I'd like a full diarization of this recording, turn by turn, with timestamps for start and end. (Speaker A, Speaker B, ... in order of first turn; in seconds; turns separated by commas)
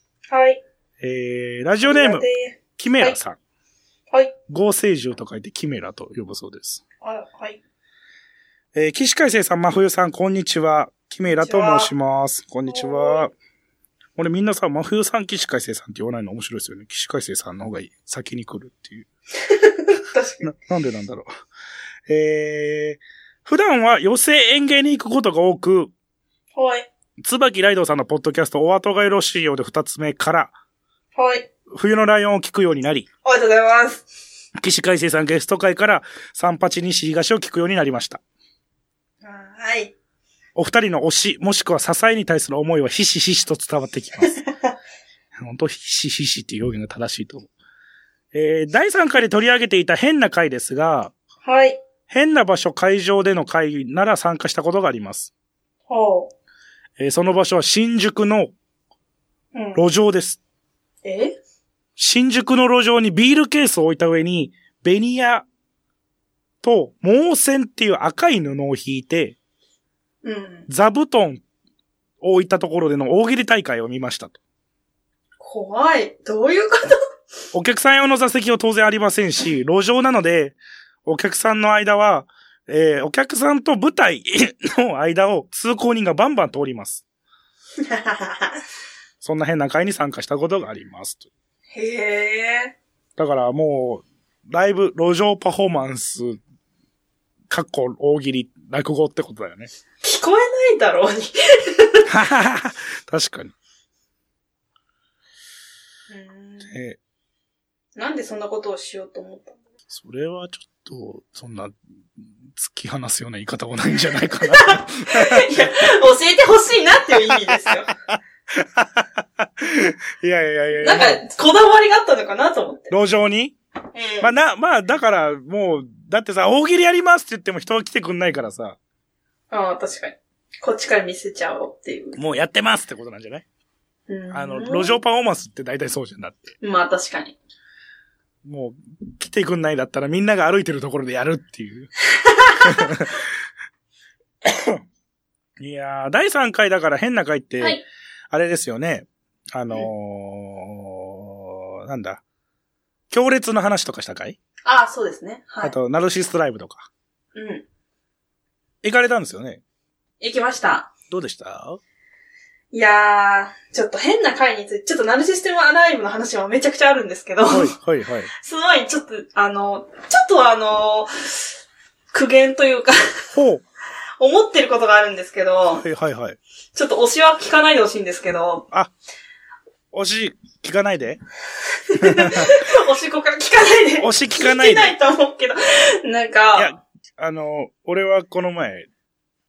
Speaker A: 0.3-0.6, Speaker B: 1.0-3.4, Speaker A: 1.8-3.2, Speaker B: 4.5-6.8, Speaker A: 7.0-7.6, Speaker B: 8.7-13.3, Speaker A: 11.3-11.9, Speaker A: 12.7-13.3, Speaker B: 14.2-19.1, Speaker A: 19.4-20.5, Speaker B: 20.4-21.3, Speaker B: 22.1-25.9, Speaker A: 26.5-26.9, Speaker B: 27.2-30.5, Speaker A: 31.1-31.5, Speaker B: 31.7-33.1, Speaker A: 33.2-34.1, Speaker B: 34.6-38.2, Speaker A: 39.2-39.9, Speaker B: 40.5-44.3, Speaker B: 45.4-47.5, Speaker B: 48.3-51.1, Speaker A: 51.4-51.8, Speaker B: 52.1-55.3, Speaker A: 55.9-56.3, Speaker B: 57.0-58.5, Speaker A: 59.5-59.8, Speaker B: 59.7-60.4, Speaker A: 61.0-61.4, Speaker B: 62.0-65.5, Speaker B: 66.6-69.4, Speaker A: 70.2-70.7, Speaker B: 70.7-71.4, Speaker B: 72.2-74.4, Speaker A: 75.4-77.0, Speaker B: 77.5-87.0, Speaker A: 87.8-88.6, Speaker B: 89.2-91.3, Speaker A: 91.7-92.7, Speaker B: 93.2-96.4, Speaker B: 97.5-99.7, Speaker A: 100.0-102.1, Speaker B: 102.1-103.5, Speaker A: 106.1-106.8, Speaker B: 106.6-107.0, Speaker A: 108.0-109.6, Speaker B: 109.9-115.8, Speaker A: 114.4-117.9, Speaker B: 118.1-121.2, Speaker A: 120.8-122.9, Speaker B: 122.9-123.5, Speaker A: 123.9-124.3, Speaker B: 124.2-128.8, Speaker A: 129.5-132.2, Speaker B: 132.2-133.4, Speaker A: 134.1-135.0, Speaker B: 134.3-136.5, Speaker A: 136.6-137.4, Speaker B: 138.4-141.9, Speaker A: 142.2-142.9, Speaker B: 142.6-143.2, Speaker B: 144.4-144.8, Speaker B: 145.6-147.8, Speaker B: 148.3-152.2, Speaker B: 153.1-154.4, Speaker A: 154.6-155.7, Speaker B: 155.6-156.9, Speaker A: 157.3-157.6, Speaker B: 158.8-159.6, Speaker A: 160.2-160.9, Speaker B: 161.1-161.8, Speaker A: 162.7-167.7, Speaker B: 167.5-168.3, Speaker A: 168.4-171.5, Speaker A: 172.1-173.0, Speaker B: 173.3-173.6, Speaker A: 174.2-175.8, Speaker B: 175.8-176.4, Speaker A: 176.7-178.7, Speaker B: 179.9-181.2, Speaker A: 181.9-186.7, Speaker B: 182.0-182.6, Speaker B: 184.0-184.9, Speaker B: 186.6-188.9